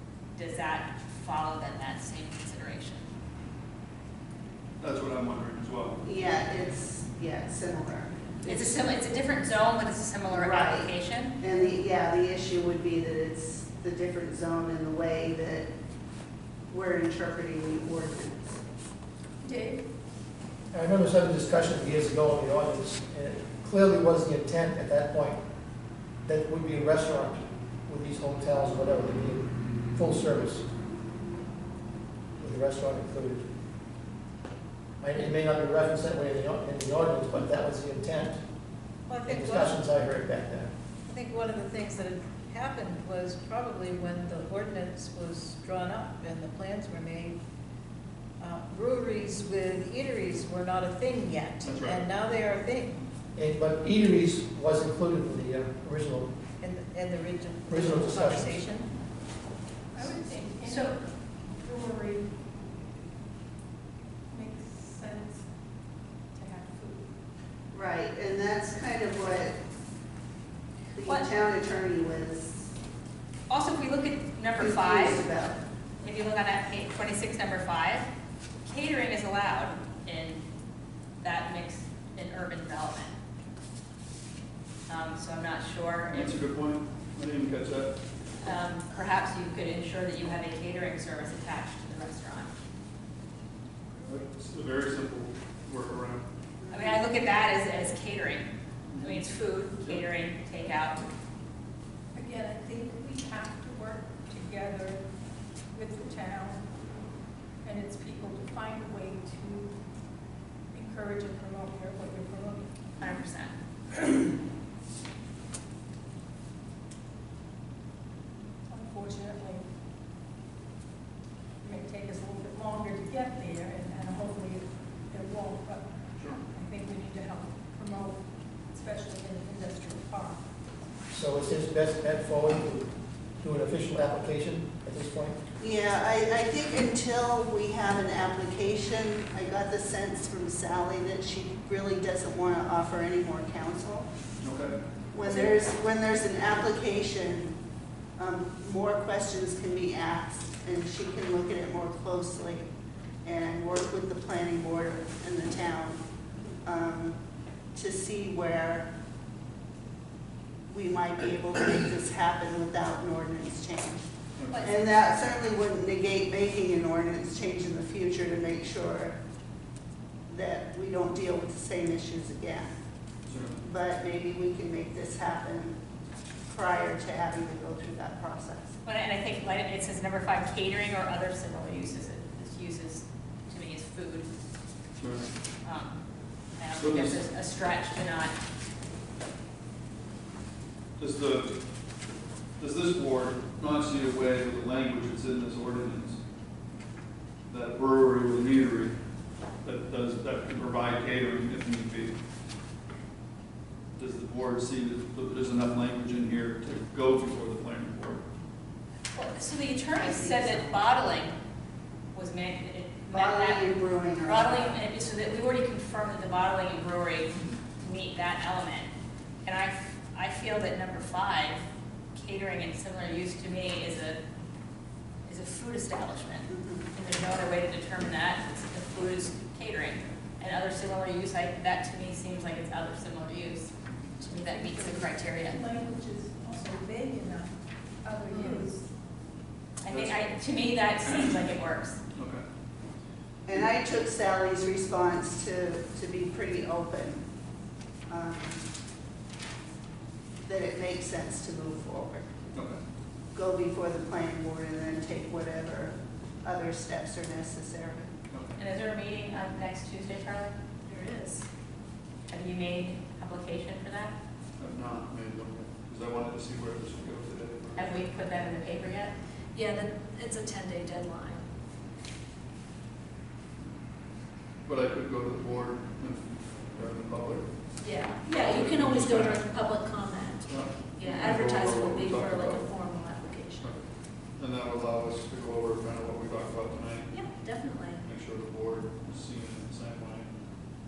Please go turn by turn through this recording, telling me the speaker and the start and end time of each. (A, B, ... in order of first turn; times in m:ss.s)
0:00.4-0:03.1 A
0:04.8-0:06.0 B
0:06.0-0:08.8 C
0:08.4-0:11.4 A
0:10.3-0:15.7 C
0:16.7-0:18.6 C
0:19.4-0:19.8 D
0:20.7-0:25.4 E
0:26.2-0:30.6 E
0:32.4-0:33.4 E
0:35.0-0:38.4 E
0:39.1-0:39.8 F
0:39.2-0:40.7 E
0:41.1-0:47.4 F
0:48.4-0:53.0 F
0:51.6-0:52.1 B
0:53.4-0:56.3 E
0:56.6-0:58.9 F
0:57.7-0:58.6 E
0:59.9-1:01.0 D
1:00.0-1:00.9 G
1:01.6-1:02.3 D
1:04.3-1:05.4 D
1:06.3-1:07.1 D
1:07.7-1:09.6 C
1:10.9-1:12.7 C
1:11.0-1:11.3 A
1:13.5-1:15.2 A
1:14.6-1:15.6 C
1:16.0-1:18.1 A
1:18.6-1:20.4 A
1:21.2-1:23.1 A
1:24.9-1:26.4 A
1:26.1-1:27.9 B
1:28.4-1:32.5 A
1:33.9-1:36.2 B
1:36.6-1:37.0 C
1:36.7-1:41.0 A
1:38.9-1:39.2 B
1:42.1-1:45.0 D
1:45.7-1:46.6 D
1:47.6-1:49.8 D
1:50.7-1:52.7 D
1:53.0-1:53.5 A
1:58.7-1:59.6 D
2:01.6-2:10.4 D
2:11.1-2:15.4 E
2:15.6-2:24.1 C
2:24.4-2:24.8 B
2:25.1-2:27.5 C
2:28.2-2:32.7 C
2:33.2-2:36.0 C
2:36.6-2:37.2 C
2:37.7-2:38.9 C
2:40.7-2:44.0 C
2:44.4-2:44.7 B
2:44.6-2:49.1 C
2:50.3-2:52.7 C
2:53.3-2:53.6 B
2:53.6-2:55.8 C
2:56.5-2:58.7 C
2:58.8-3:04.3 A
3:05.0-3:05.3 B
3:05.6-3:06.0 A
3:06.6-3:08.3 A
3:06.8-3:07.2 B
3:11.0-3:11.5 B
3:12.6-3:16.2 B
3:17.5-3:18.9 B
3:19.6-3:22.1 B
3:24.0-3:28.2 B
3:29.1-3:31.4 A
3:29.9-3:30.6 C
3:32.1-3:38.9 A
3:33.1-3:34.8 C
3:39.4-3:44.2 A
3:45.2-3:55.6 A
3:46.5-3:46.9 C
3:54.4-3:58.9 D
3:58.3-3:58.7 G
3:59.8-4:02.0 A
3:59.9-4:00.2 B
4:02.1-4:02.4 B
4:03.4-4:07.2 C
4:08.1-4:08.6 C
4:10.4-4:12.2 C
4:12.5-4:12.8 B
4:13.3-4:18.1 C
4:18.3-4:18.6 B
4:18.6-4:20.5 A
4:20.8-4:21.5 G
4:22.3-4:24.1 A
4:24.6-4:27.9 B
4:27.8-4:29.1 A
4:29.5-4:31.4 G
4:34.6-4:37.5 B
4:37.8-4:43.7 G
4:38.2-4:39.5 B
4:40.4-4:42.7 B
4:44.4-4:47.4 B
4:47.1-4:48.0 G
4:48.0-4:50.3 B